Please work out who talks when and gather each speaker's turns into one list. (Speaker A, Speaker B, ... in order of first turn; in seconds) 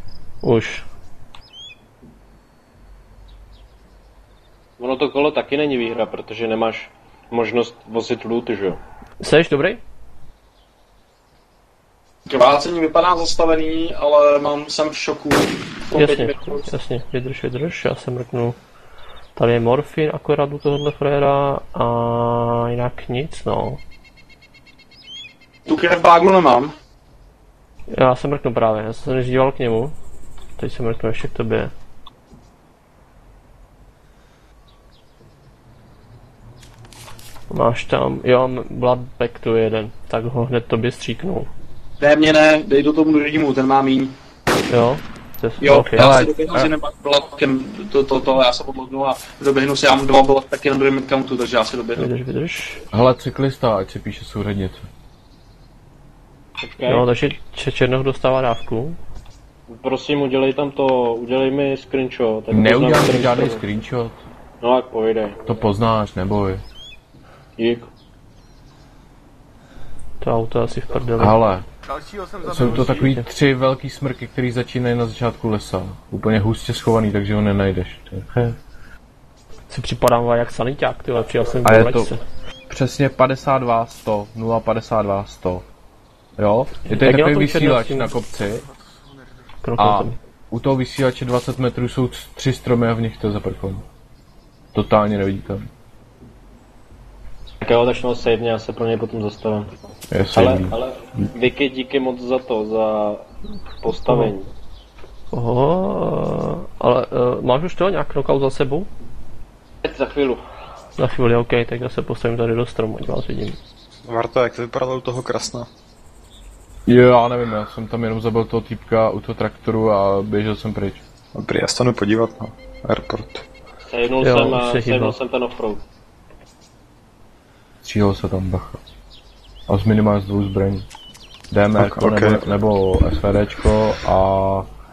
Speaker A: 0.4-0.8, 9.2-9.8, 15.9-18.6, 19.3-23.8, 27.9-29.9, 30.6-31.7, 37.5-41.5, 44.7-46.1, 52.0-52.8, 56.9-59.0, 70.2-71.4, 79.7-82.2, 86.9-88.1, 89.6-90.2, 105.3-108.9, 111.0-113.6, 124.2-125.2
Speaker B: 4.8-8.8, 56.6-57.0, 59.7-63.6, 64.6-65.4, 67.6-67.9, 97.6-99.7, 100.3-103.2, 103.8-104.5, 109.8-110.4, 123.8-125.8
Speaker C: 12.3-16.6, 25.7-26.7, 42.0-44.1, 45.6-52.0
Speaker D: 46.0-46.7, 52.9-54.9, 62.5-64.2, 65.4-66.6, 71.2-71.7, 72.4-78.5, 81.6-82.1, 82.7-85.6, 86.4-88.7, 89.8-93.8, 94.7-95.7, 100.1-100.8, 116.9-121.0, 127.8-128.8, 129.7-130.9, 131.5-134.7
Speaker E: 114.0-115.7, 121.3-123.4, 131.8-132.5